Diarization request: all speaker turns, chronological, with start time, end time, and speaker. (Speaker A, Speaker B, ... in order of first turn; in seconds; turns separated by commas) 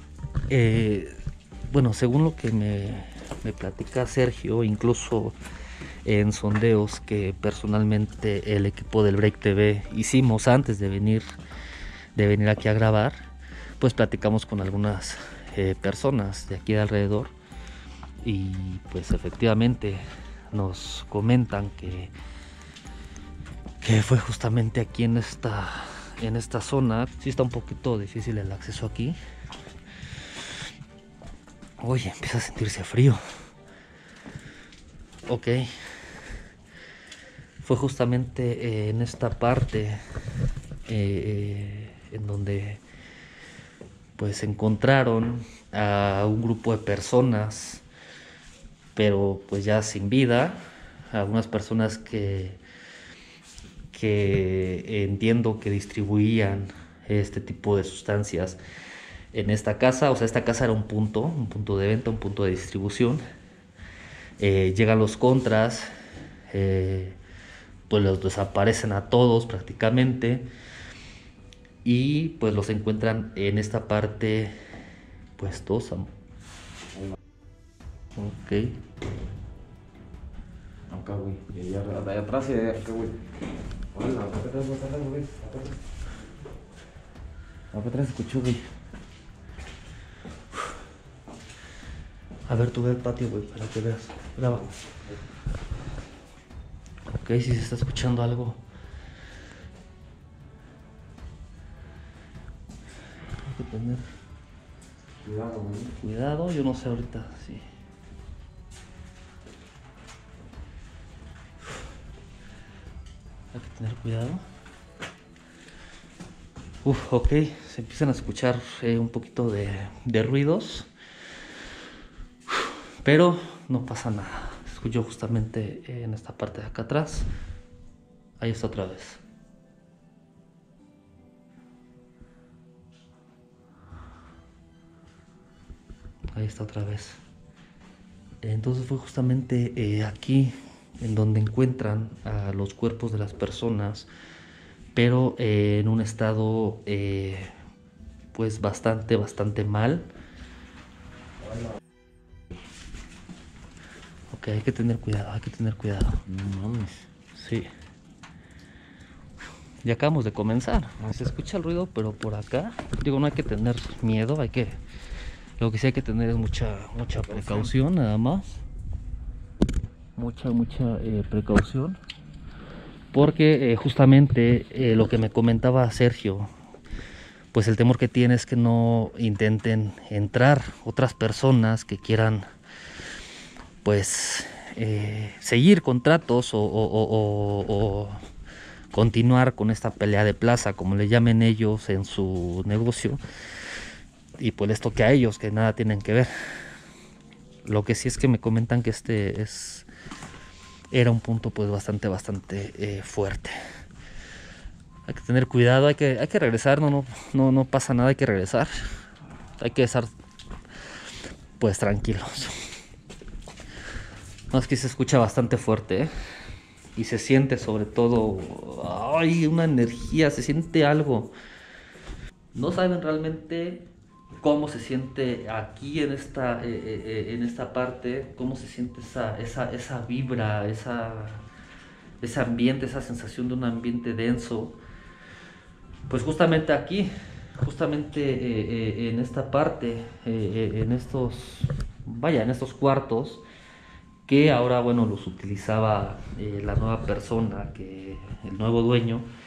Speaker A: 0.5-5.3, Speaker A: 6.0-11.2, Speaker A: 12.2-13.2, Speaker A: 13.8-17.3, Speaker A: 18.2-22.1, Speaker A: 23.8-29.2, Speaker A: 31.8-33.2, Speaker A: 35.3-35.9, Speaker A: 37.6-40.0, Speaker A: 40.9-42.8, Speaker A: 44.2-47.8, Speaker A: 49.0-50.6, Speaker A: 51.1-52.6, Speaker A: 53.9-58.6, Speaker A: 59.3-63.2, Speaker A: 64.4-65.9, Speaker A: 66.5-67.2, Speaker A: 67.9-70.5, Speaker A: 71.8-74.6, Speaker A: 75.4-76.1, Speaker A: 78.2-78.8, Speaker B: 80.9-83.2, Speaker B: 83.9-85.8, Speaker B: 87.7-88.7, Speaker A: 92.5-94.6, Speaker B: 94.4-95.0, Speaker A: 97.1-98.6, Speaker A: 103.4-104.1, Speaker B: 105.2-106.0, Speaker A: 106.0-107.6, Speaker A: 113.5-114.4, Speaker A: 116.8-120.9, Speaker A: 123.0-127.3, Speaker A: 128.4-129.2, Speaker A: 136.3-137.2, Speaker A: 138.4-144.1, Speaker A: 144.9-147.5, Speaker A: 148.3-150.1, Speaker A: 154.3-156.2, Speaker B: 156.2-157.1, Speaker A: 157.3-157.7, Speaker A: 159.8-164.8, Speaker A: 165.6-168.6, Speaker B: 167.1-167.7, Speaker A: 170.2-172.0, Speaker A: 173.1-176.5, Speaker A: 177.5-182.4, Speaker A: 183.8-188.2, Speaker A: 188.9-193.2, Speaker A: 194.4-196.3, Speaker A: 197.6-199.9, Speaker A: 200.9-203.6, Speaker A: 205.1-208.7, Speaker A: 209.6-210.1, Speaker A: 211.6-212.6, Speaker A: 214.5-216.1, Speaker A: 216.9-221.3, Speaker A: 222.5-223.9, Speaker A: 224.4-231.4, Speaker A: 232.2-234.8, Speaker A: 236.1-243.4, Speaker A: 244.3-249.3